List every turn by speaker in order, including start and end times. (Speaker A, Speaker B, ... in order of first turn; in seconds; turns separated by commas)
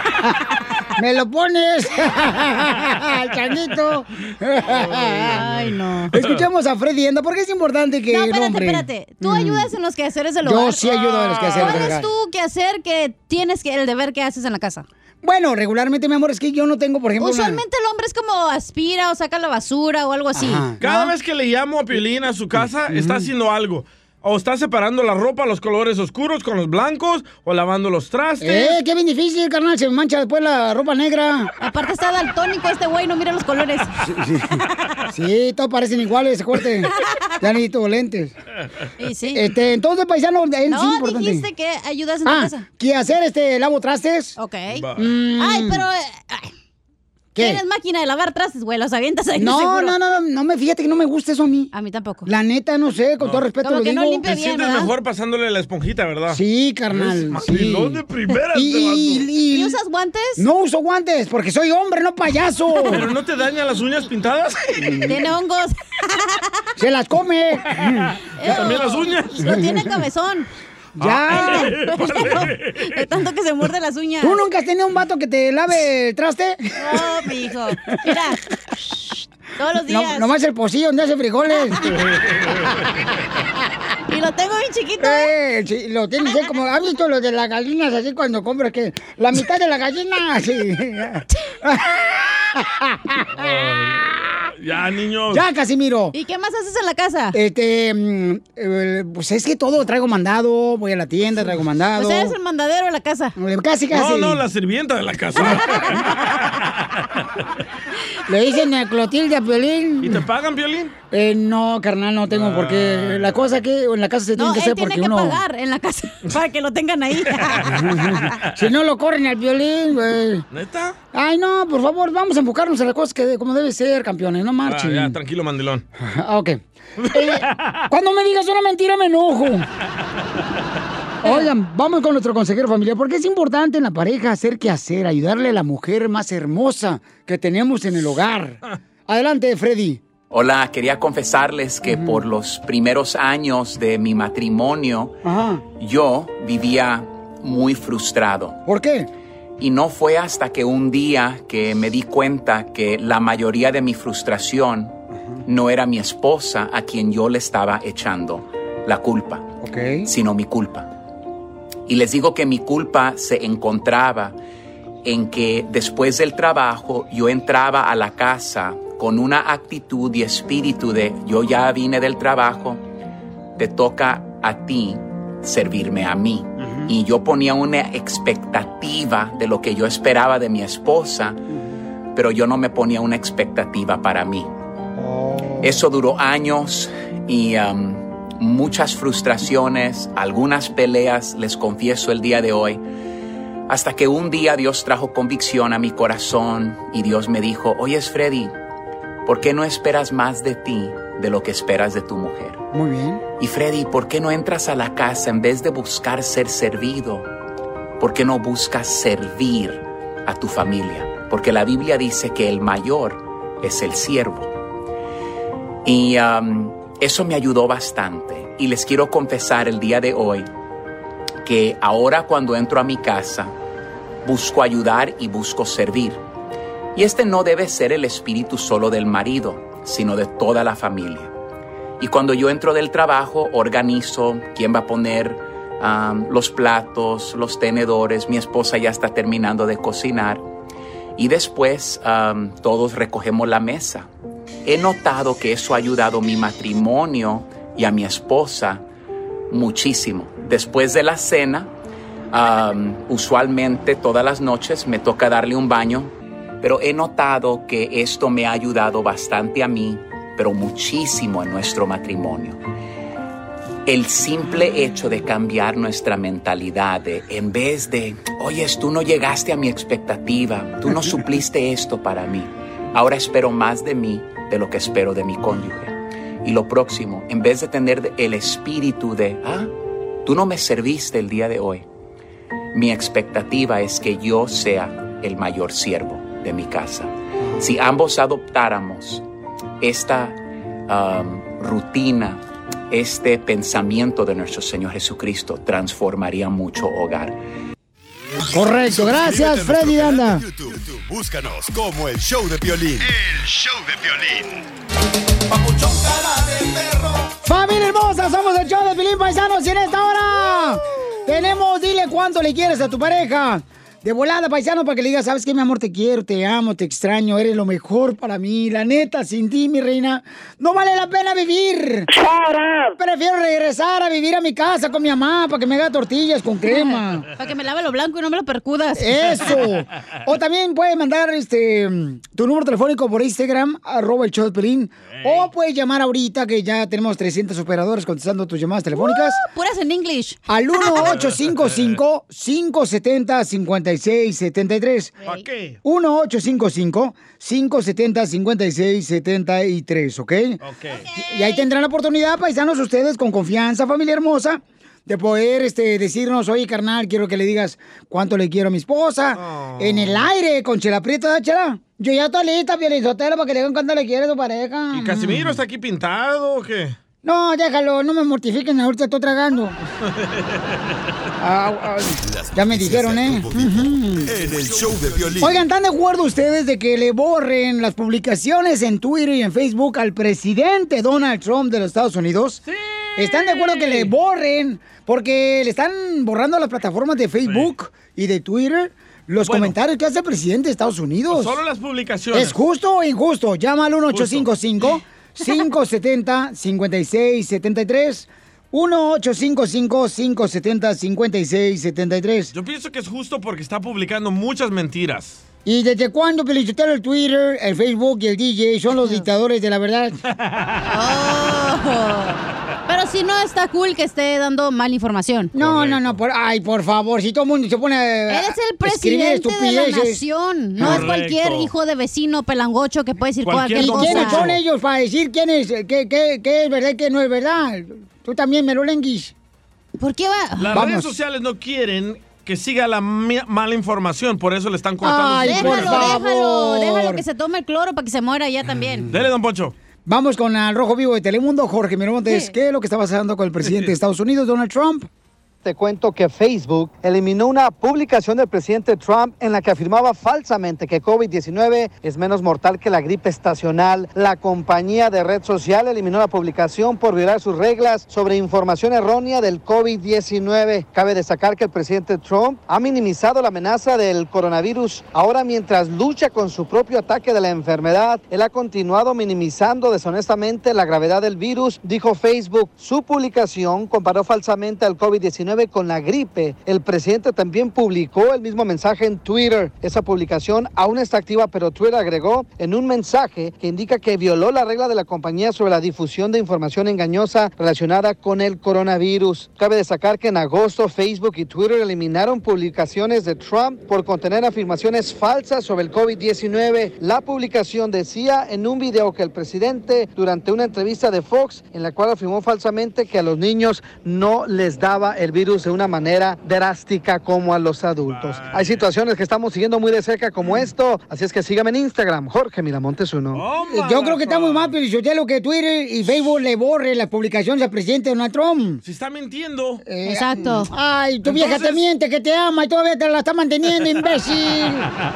Speaker A: 1.0-5.5, Speaker B: 4.7-6.4, Speaker C: 5.3-6.2, Speaker A: 6.1-9.7, Speaker C: 8.1-14.9, Speaker A: 10.4-12.1, Speaker B: 11.1-11.9, Speaker A: 15.2-17.6, Speaker C: 17.2-21.1, Speaker A: 20.4-20.8, Speaker B: 20.8-28.8, Speaker A: 22.9-23.3, Speaker A: 28.4-31.5, Speaker C: 31.6-33.9, Speaker A: 34.0-38.3, Speaker C: 39.0-39.4, Speaker A: 39.3-41.5, Speaker C: 40.7-42.7, Speaker A: 42.2-44.4, Speaker C: 44.4-44.9, Speaker B: 44.7-45.1, Speaker A: 45.0-45.9, Speaker C: 45.4-46.5, Speaker A: 47.4-47.6, Speaker C: 47.4-50.0, Speaker A: 49.4-51.7, Speaker C: 51.7-52.3, Speaker A: 52.3-54.2, Speaker B: 53.2-53.5, Speaker C: 53.6-54.9, Speaker B: 54.2-56.4, Speaker A: 56.3-59.8, Speaker B: 56.9-59.3, Speaker C: 59.5-60.5, Speaker A: 60.4-63.1, Speaker B: 62.9-65.0, Speaker A: 64.8-65.2, Speaker C: 65.1-66.5, Speaker A: 66.8-68.7, Speaker C: 68.4-70.5, Speaker B: 68.5-69.5, Speaker A: 69.4-69.8, Speaker A: 71.0-71.7, Speaker B: 71.0-72.9, Speaker C: 71.3-74.4, Speaker A: 74.2-77.1, Speaker C: 76.8-78.4, Speaker C: 79.6-80.3, Speaker A: 79.9-82.0, Speaker B: 82.1-82.6, Speaker C: 84.1-85.3, Speaker A: 85.0-93.5, Speaker B: 93.3-95.4, Speaker A: 95.3-96.1, Speaker C: 96.1-97.4, Speaker A: 97.3-102.4, Speaker C: 102.0-103.3, Speaker A: 103.4-104.4, Speaker B: 103.9-106.1, Speaker C: 105.6-106.0, Speaker A: 108.3-110.2, Speaker B: 110.0-111.0, Speaker A: 111.1-115.4, Speaker B: 112.3-113.5, Speaker C: 114.4-118.2, Speaker B: 117.5-117.8, Speaker A: 117.7-120.5, Speaker B: 120.5-121.0, Speaker A: 121.1-125.2, Speaker B: 124.7-125.8, Speaker A: 126.0-129.7, Speaker B: 127.1-127.8, Speaker A: 131.2-140.0, Speaker D: 140.3-145.2, Speaker A: 141.9-142.2, Speaker A: 145.2-145.6, Speaker D: 145.8-148.6, Speaker A: 148.7-149.1, Speaker D: 149.6-159.5, Speaker A: 159.6-160.1, Speaker D: 160.1-160.9, Speaker D: 161.9-164.4, Speaker D: 165.0-172.8, Speaker D: 173.6-181.4, Speaker A: 176.6-176.9, Speaker A: 181.5-181.8, Speaker D: 182.1-184.5, Speaker A: 185.0-185.8, Speaker D: 185.6-192.8, Speaker D: 193.7-198.5, Speaker D: 199.3-202.6, Speaker A: 202.7-203.2, Speaker D: 203.4-207.3, Speaker D: 208.0-214.5, Speaker D: 215.8-220.5, Speaker D: 221.4-223.5, Speaker D: 224.2-226.2, Speaker D: 226.9-231.3, Speaker D: 232.0-240.4, Speaker D: 241.2-244.1, Speaker D: 244.7-248.8, Speaker D: 249.5-251.7, Speaker D: 252.3-262.6, Speaker D: 263.9-279.7, Speaker D: 280.2-281.9, Speaker D: 282.7-289.2, Speaker D: 289.8-297.4, Speaker A: 298.5-300.5, Speaker E: 298.9-304.6, Speaker A: 307.4-322.1, Speaker A: 323.0-327.3, Speaker C: 326.7-329.6, Speaker A: 329.0-339.4, Speaker B: 335.1-335.5, Speaker C: 339.0-341.2, Speaker A: 340.5-345.2, Speaker B: 341.1-342.0, Speaker B: 345.2-345.8, Speaker A: 345.8-350.6, Speaker B: 350.6-351.1, Speaker A: 351.1-365.6, Speaker B: 359.4-360.3, Speaker B: 364.9-367.0, Speaker A: 367.2-369.8, Speaker B: 370.1-370.8, Speaker A: 371.4-374.4, Speaker E: 372.2-375.6, Speaker A: 375.4-382.6, Speaker A: 383.2-391.6, Speaker B: 383.4-384.0, Speaker B: 387.4-387.7, Speaker B: 389.4-389.8, Speaker B: 391.3-392.6, Speaker A: 392.3-402.5, Speaker B: 394.1-394.5, Speaker B: 402.5-405.4, Speaker A: 405.6-410.2, Speaker C: 410.9-415.5, Speaker A: 415.6-420.2, Speaker B: 415.6-416.2, Speaker C: 418.3-424.5, Speaker A: 420.8-421.1, Speaker B: 420.8-421.7, Speaker B: 423.4-424.6, Speaker A: 423.8-429.3, Speaker C: 430.0-430.9, Speaker B: 430.6-436.2, Speaker A: 430.7-431.1, Speaker A: 435.0-437.2, Speaker C: 435.4-439.1, Speaker B: 439.1-439.8, Speaker A: 440.1-445.1, Speaker F: 445.6-513.5, Speaker B: 508.1-508.9, Speaker B: 513.3-514.7, Speaker A: 513.6-518.8, Speaker B: 518.8-519.8, Speaker A: 519.8-524.9, Speaker C: 520.1-520.7, Speaker B: 521.2-521.8